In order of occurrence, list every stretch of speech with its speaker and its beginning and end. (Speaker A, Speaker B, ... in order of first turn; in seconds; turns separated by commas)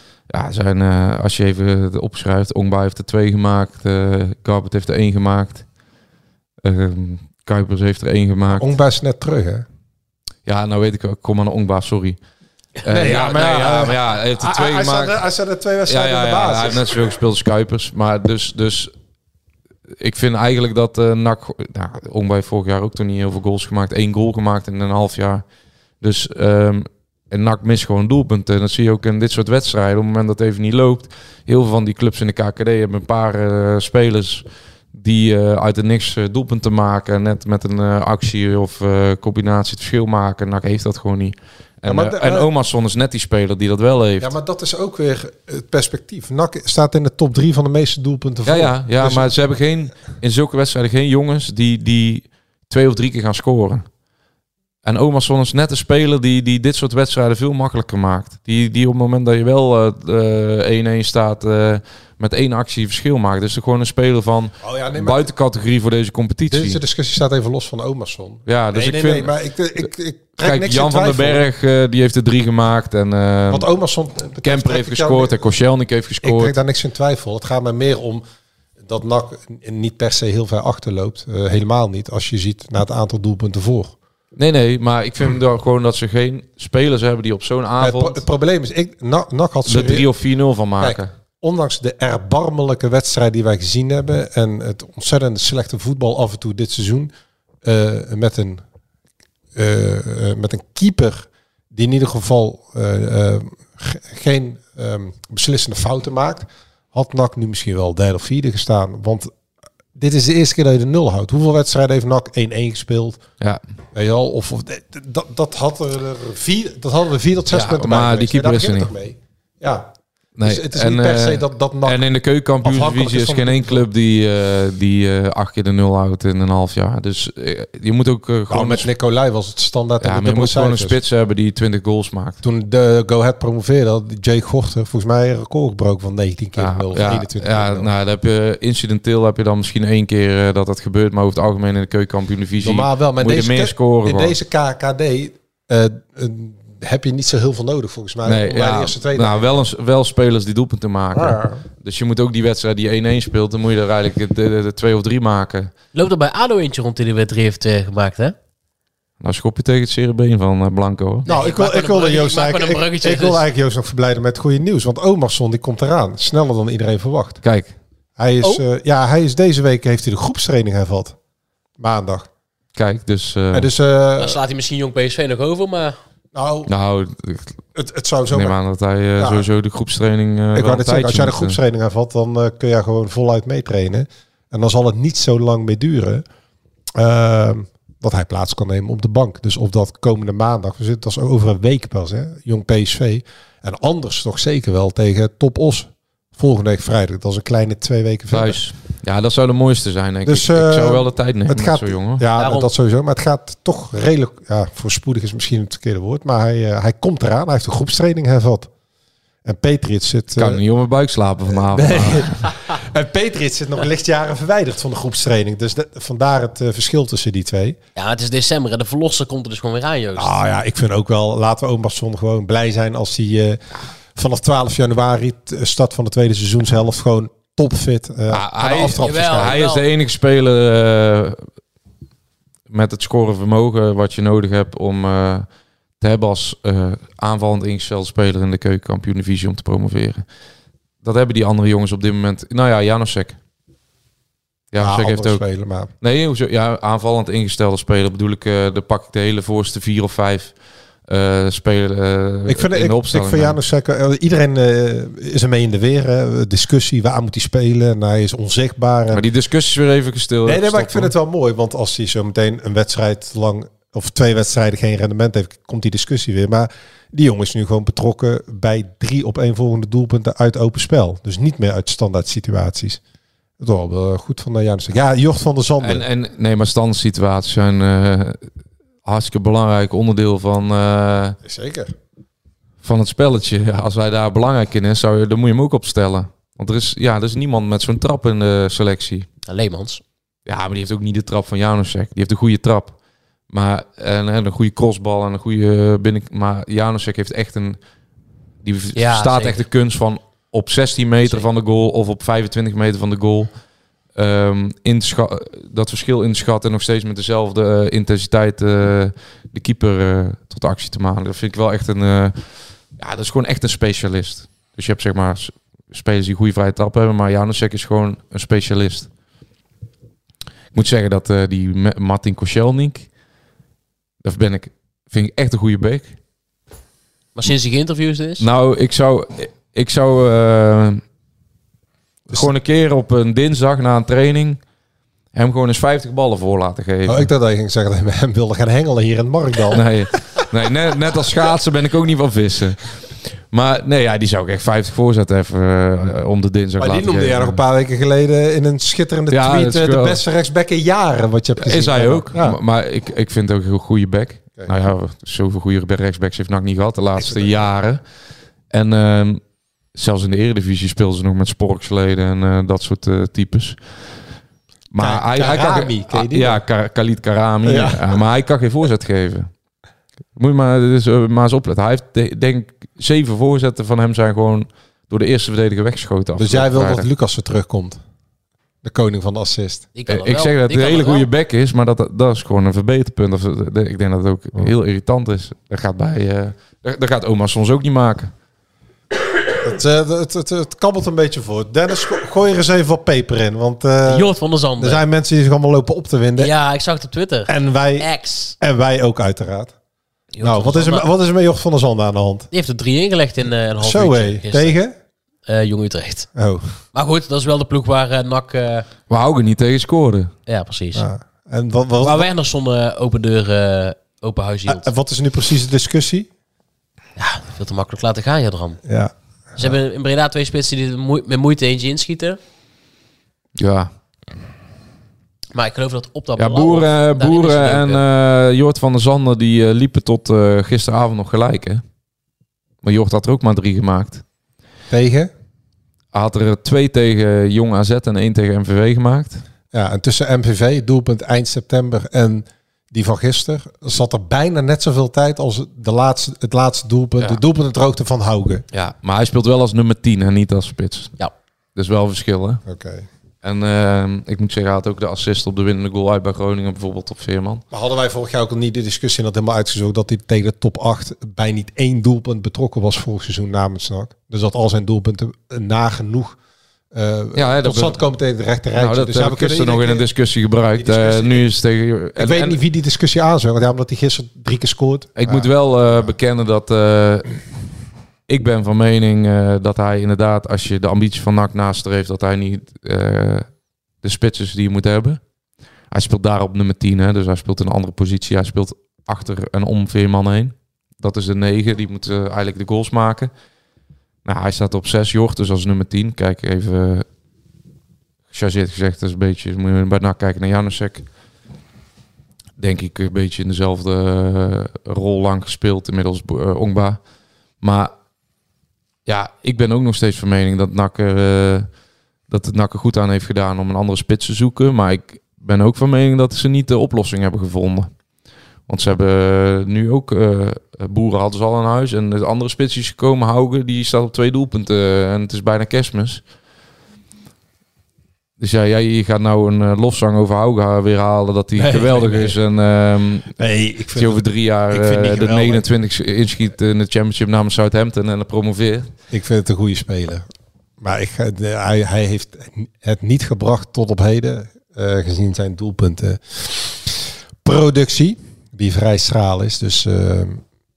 Speaker A: 0.3-5.6, Speaker A: 6.6-8.7, Speaker B: 8.5-9.7, Speaker A: 10.4-12.2, Speaker A: 12.8-15.2, Speaker B: 12.9-17.2, Speaker A: 15.9-18.9, Speaker A: 20.0-25.4, Speaker A: 26.0-44.3, Speaker B: 41.9-42.5, Speaker B: 44.2-49.3, Speaker A: 48.4-53.9, Speaker A: 54.8-66.8, Speaker B: 64.6-65.3, Speaker B: 66.5-71.4, Speaker A: 68.5-69.3, Speaker A: 70.4-73.7, Speaker B: 73.5-75.4, Speaker A: 74.4-76.5, Speaker B: 76.2-78.2, Speaker B: 78.8-83.9, Speaker A: 84.4-88.2, Speaker B: 87.8-90.1, Speaker A: 89.7-91.1, Speaker B: 90.8-97.1, Speaker B: 97.6-98.6, Speaker B: 99.5-109.3, Speaker B: 109.9-113.2, Speaker B: 113.9-122.0, Speaker A: 117.5-118.9, Speaker A: 120.4-128.9, Speaker B: 122.6-123.9, Speaker B: 128.5-131.0, Speaker A: 130.0-132.4, Speaker B: 132.4-137.9, Speaker A: 136.6-144.3, Speaker B: 142.6-149.6, Speaker A: 148.2-155.7, Speaker B: 151.1-151.6, Speaker C: 155.9-158.4, Speaker A: 159.2-161.3, Speaker C: 161.2-163.4, Speaker B: 161.2-167.4, Speaker A: 167.4-167.7, Speaker B: 168.2-171.2, Speaker B: 171.8-172.3, Speaker A: 172.7-173.7, Speaker B: 173.5-174.4, Speaker C: 174.2-176.0, Speaker B: 176.3-176.7, Speaker A: 176.7-177.6, Speaker B: 177.7-178.6, Speaker A: 178.3-181.6, Speaker B: 179.2-179.5, Speaker B: 180.5-186.2, Speaker B: 186.9-198.6, Speaker A: 198.3-202.2, Speaker B: 200.2-208.7, Speaker C: 202.4-202.7, Speaker B: 209.4-210.6, Speaker A: 210.4-212.5, Speaker B: 211.5-217.8, Speaker C: 217.9-220.4, Speaker B: 220.1-223.6, Speaker B: 224.2-229.6, Speaker A: 228.3-231.4, Speaker C: 228.7-229.8, Speaker A: 232.7-235.4, Speaker A: 236.0-240.2, Speaker A: 241.0-243.4, Speaker A: 244.7-245.4, Speaker B: 244.8-245.9, Speaker A: 246.0-250.5, Speaker A: 251.1-253.6, Speaker B: 252.5-259.2, Speaker A: 259.1-261.1, Speaker B: 260.4-273.0, Speaker B: 273.6-276.0, Speaker A: 275.8-278.4, Speaker A: 279.0-281.4, Speaker B: 281.4-281.9, Speaker A: 282.8-289.3, Speaker C: 289.5-290.0, Speaker A: 290.4-292.9, Speaker A: 293.5-297.8, Speaker A: 298.6-303.5, Speaker C: 298.9-299.6, Speaker A: 304.1-312.4, Speaker A: 313.0-319.1, Speaker A: 320.7-323.1, Speaker A: 324.2-326.1, Speaker C: 327.4-328.4, Speaker A: 328.4-331.0, Speaker A: 332.3-334.6, Speaker A: 335.3-337.3, Speaker B: 337.0-339.9, Speaker A: 339.7-342.9, Speaker A: 343.5-347.6, Speaker B: 346.8-352.6, Speaker A: 349.3-350.2, Speaker A: 351.6-358.0, Speaker B: 357.2-357.6, Speaker A: 358.7-359.4, Speaker A: 359.9-363.8, Speaker A: 364.9-369.5, Speaker B: 365.0-366.6, Speaker B: 367.6-368.1, Speaker A: 370.4-377.1, Speaker B: 376.4-378.0, Speaker B: 378.8-379.9, Speaker C: 379.9-381.3, Speaker A: 380.1-388.3, Speaker B: 389.6-396.5, Speaker C: 394.1-395.0, Speaker C: 396.4-398.6, Speaker B: 397.5-399.7, Speaker C: 400.3-401.1, Speaker B: 400.4-402.5, Speaker C: 402.5-404.8, Speaker B: 403.8-404.9, Speaker C: 405.5-406.3, Speaker B: 406.4-406.7, Speaker C: 406.9-408.9, Speaker A: 409.1-410.3, Speaker C: 410.5-411.1, Speaker B: 410.9-412.3, Speaker C: 412.0-414.9, Speaker B: 414.7-416.3, Speaker C: 417.2-418.8, Speaker B: 418.9-419.7, Speaker C: 419.6-422.4, Speaker A: 423.6-423.9, Speaker C: 425.5-428.0, Speaker A: 426.4-431.8, Speaker A: 432.8-434.2, Speaker B: 434.9-435.3, Speaker A: 436.1-439.4, Speaker B: 439.7-448.6, Speaker A: 448.7-451.1, Speaker A: 451.8-452.6, Speaker B: 452.6-453.1, Speaker A: 453.4-457.6, Speaker B: 457.7-466.4, Speaker B: 466.9-470.1, Speaker A: 467.4-468.0, Speaker A: 468.8-472.6, Speaker B: 470.8-471.4, Speaker B: 472.1-476.1, Speaker A: 475.2-477.4, Speaker A: 478.3-483.5, Speaker A: 484.0-485.2, Speaker A: 485.9-493.3, Speaker A: 494.2-497.1, Speaker A: 498.3-501.1, Speaker A: 502.6-507.0, Speaker A: 507.6-507.9, Speaker A: 509.1-511.7, Speaker A: 512.3-517.9, Speaker A: 518.7-526.2, Speaker A: 528.4-533.3, Speaker B: 531.5-532.4, Speaker B: 533.4-535.6, Speaker A: 533.9-538.9, Speaker B: 539.1-540.2, Speaker B: 540.8-550.4